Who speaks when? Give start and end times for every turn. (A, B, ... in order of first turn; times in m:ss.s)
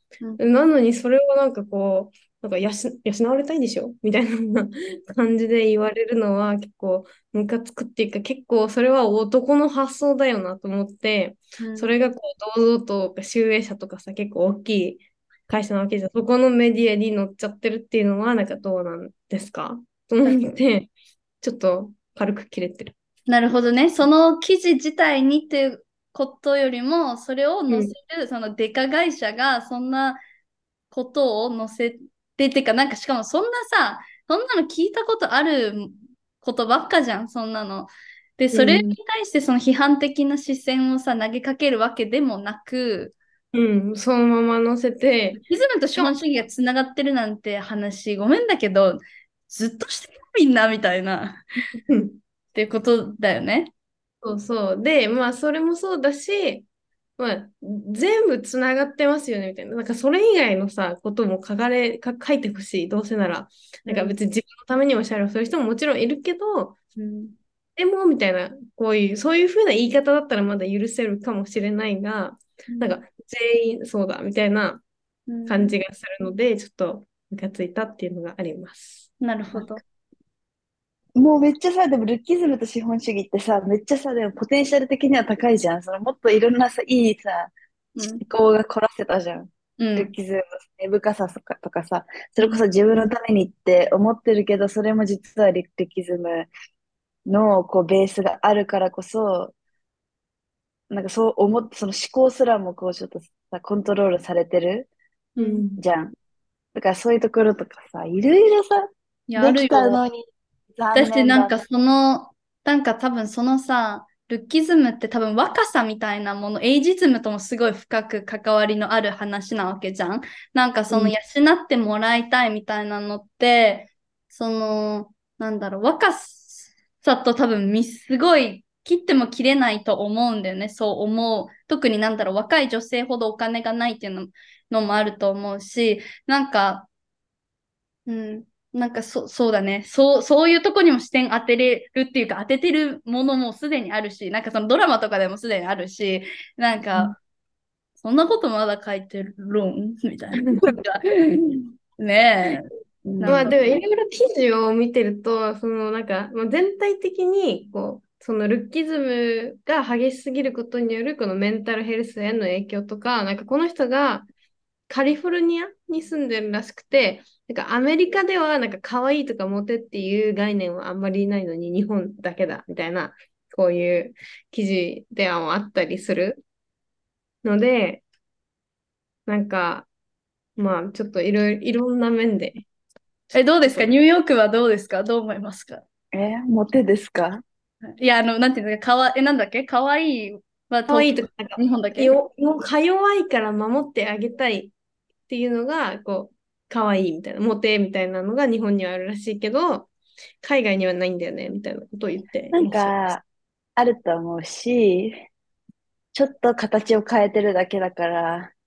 0:00.4-0:22.9 A
0:11.6-0:12.0 B
0:23.3-0:30.2 B
0:27.7-0:27.9 A
0:30.9-0:43.2 B
0:38.5-0:39.0 A
0:43.5-0:45.4 A
0:45.4-0:51.4 B
0:51.9-0:52.2 A
0:52.5-0:53.7 B
0:54.2-0:56.7 A
0:57.2-1:06.8 A
1:03.9-1:04.2 B
1:07.0-1:07.4 B
1:07.8-1:14.8 A
1:12.7-1:13.0 B
1:15.3-1:15.8 B
1:15.5-1:19.1 A
1:19.2-1:19.8 B
1:21.2-1:36.5 C
1:28.0-1:28.2 B
1:29.8-1:30.1 B
1:37.3-1:39.5 C
1:40.9-1:44.9 C
1:45.4-1:45.8 A
1:45.4-1:45.6 B
1:45.8-1:46.1 C
1:46.8-1:51.6 C
1:49.3-1:50.0 B
1:50.9-2:16.9 B
2:18.1-2:27.2 B
2:28.0-2:32.7 B
2:33.0-2:33.5 C
2:33.2-2:33.7 B
2:33.3-2:44.3 A
2:44.9-2:56.4 A
2:57.4-2:58.0 A
2:59.3-2:59.9 A
3:00.6-3:02.7 A
3:03.3-3:05.8 B
3:03.6-3:03.9 A
3:06.1-3:07.4 C
3:07.8-3:12.1 B
3:10.9-3:14.7 A
3:15.3-3:19.9 A
3:20.4-3:22.9 A
3:22.5-3:23.2 C
3:23.8-3:25.2 C
3:26.1-3:28.5 C